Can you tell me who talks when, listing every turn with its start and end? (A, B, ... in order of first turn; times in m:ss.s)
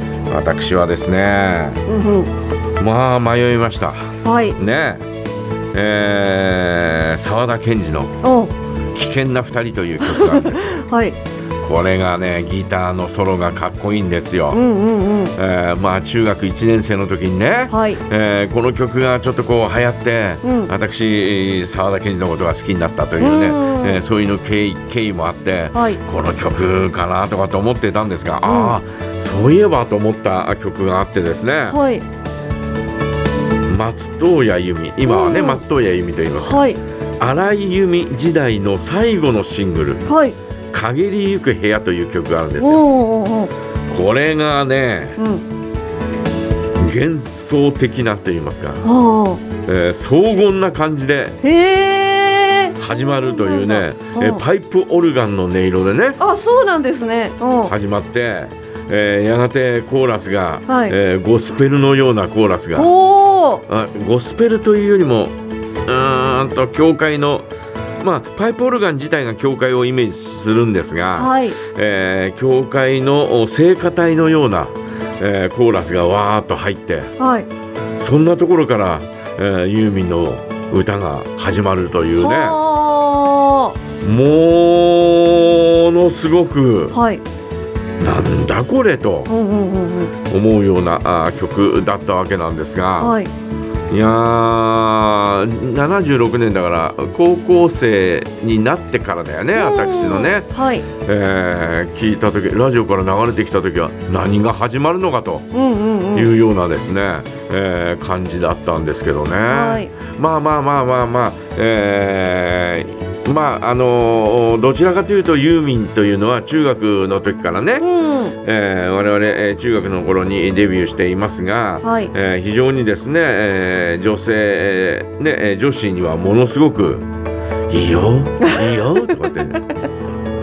0:00.3-0:01.8 A
0:01.9-0:02.3 B
0:02.8-0:05.0 A
0:04.2-0:04.6 B
0:05.7-0:08.2 A
0:08.2-0:08.5 B
0:08.9-0:10.8 A
0:10.0-0:11.2 B
0:11.6-0:14.6 A
0:14.5-0:15.3 B
0:15.4-0:31.8 A
0:17.7-0:18.0 B
0:20.4-0:20.7 B
0:23.2-0:24.0 B
0:25.7-0:26.0 B
0:28.4-0:28.8 B
0:31.7-0:32.0 B
0:33.7-0:36.7 A
0:35.0-0:35.6 B
0:36.4-0:36.8 B
0:37.2-0:40.0 A
0:40.0-0:40.4 B
0:40.7-0:42.9 A
0:42.6-0:43.5 B
0:43.9-0:45.2 A
0:45.2-0:45.4 B
0:46.8-0:48.9 A
0:48.8-0:49.4 B
0:49.6-0:51.4 A
0:51.4-0:54.4 B
0:52.8-0:56.2 A
0:56.2-0:57.7 B
0:57.6-1:02.9 A
1:00.7-1:00.9 B
1:02.7-1:03.6 B
1:03.7-1:05.3 A
1:05.8-1:07.5 A
1:08.0-1:17.1 A
1:11.1-1:11.6 B
1:17.2-1:17.5 B
1:18.0-1:22.6 A
1:22.2-1:23.8 B
1:24.0-1:27.0 A
1:26.9-1:27.2 B
1:28.0-1:29.3 A
1:29.3-1:30.1 B
1:30.2-1:33.2 A
1:33.0-1:33.3 B
1:33.9-1:40.5 A
1:39.5-1:40.9 B
1:41.0-1:45.5 A
1:45.5-1:46.3 B
1:46.1-2:07.0 A
1:49.5-1:49.9 B
1:57.8-1:58.3 B
2:01.8-2:02.1 B
2:07.7-2:09.6 A
2:08.4-2:09.0 B